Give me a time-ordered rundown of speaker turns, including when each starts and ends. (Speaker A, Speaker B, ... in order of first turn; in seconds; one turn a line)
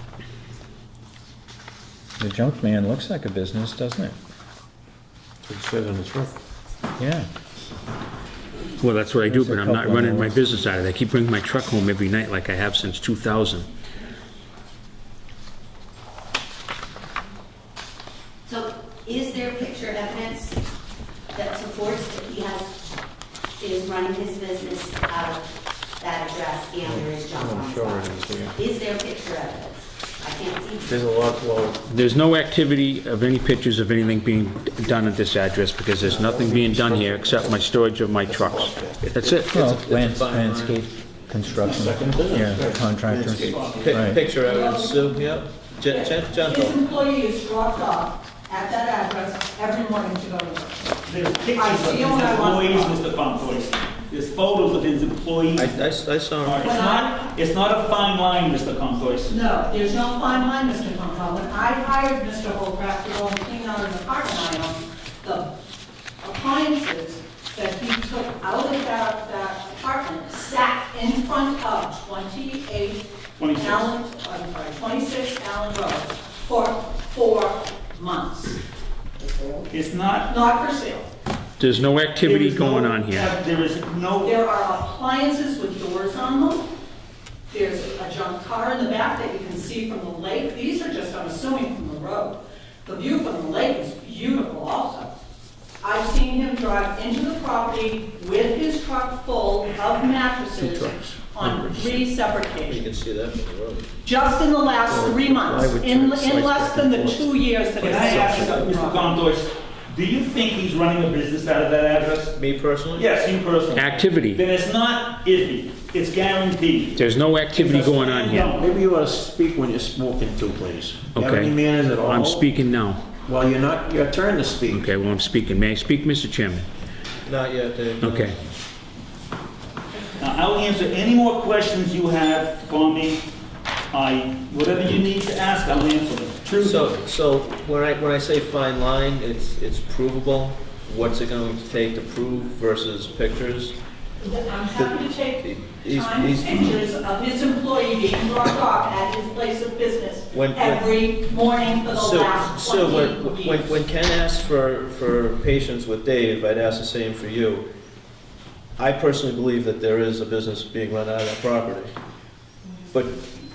Speaker A: 2.2-4.2
Speaker B: 5.5-6.4
Speaker A: 7.0-7.3
Speaker C: 8.8-13.7
Speaker A: 9.2-10.4
Speaker D: 18.5-20.6
Speaker D: 21.3-22.7
Speaker D: 23.6-25.4
Speaker D: 26.0-31.0
Speaker B: 26.8-28.6
Speaker B: 30.9-31.8
Speaker C: 31.9-39.5
Speaker B: 36.0-37.6
Speaker B: 38.2-39.5
Speaker A: 39.5-44.2
Speaker E: 39.5-40.8
Speaker B: 41.6-44.0
Speaker F: 43.4-43.9
Speaker E: 43.7-46.9
Speaker G: 44.2-45.3
Speaker G: 45.8-50.9
Speaker F: 51.0-55.7
Speaker G: 51.5-53.0
Speaker E: 55.5-56.7
Speaker F: 56.4-59.3
Speaker G: 56.6-57.2
Speaker G: 59.3-65.5
Speaker G: 66.2-78.6
Speaker F: 73.4-73.9
Speaker D: 79.2-79.5
Speaker F: 79.7-80.3
Speaker G: 80.2-81.1
Speaker C: 81.6-83.3
Speaker F: 82.2-84.4
Speaker G: 84.2-86.7
Speaker G: 87.5-95.1
Speaker G: 95.8-102.9
Speaker B: 100.5-102.0
Speaker E: 102.7-103.9
Speaker G: 104.0-109.1
Speaker B: 104.8-108.7
Speaker F: 107.8-112.4
Speaker E: 112.3-113.1
Speaker F: 112.9-118.6
Speaker C: 113.7-114.4
Speaker C: 117.0-118.5
Speaker B: 117.7-122.5
Speaker C: 121.1-123.1
Speaker B: 123.2-124.9
Speaker C: 124.7-126.7
Speaker E: 127.2-128.3
Speaker C: 128.0-128.4
Speaker F: 130.2-133.2
Speaker F: 133.9-136.9
Speaker E: 136.6-143.8
Speaker G: 144.2-153.8
Speaker E: 144.7-146.7
Speaker E: 150.3-151.0
Speaker E: 151.9-157.7
Speaker E: 158.8-161.9
Speaker E: 162.9-163.2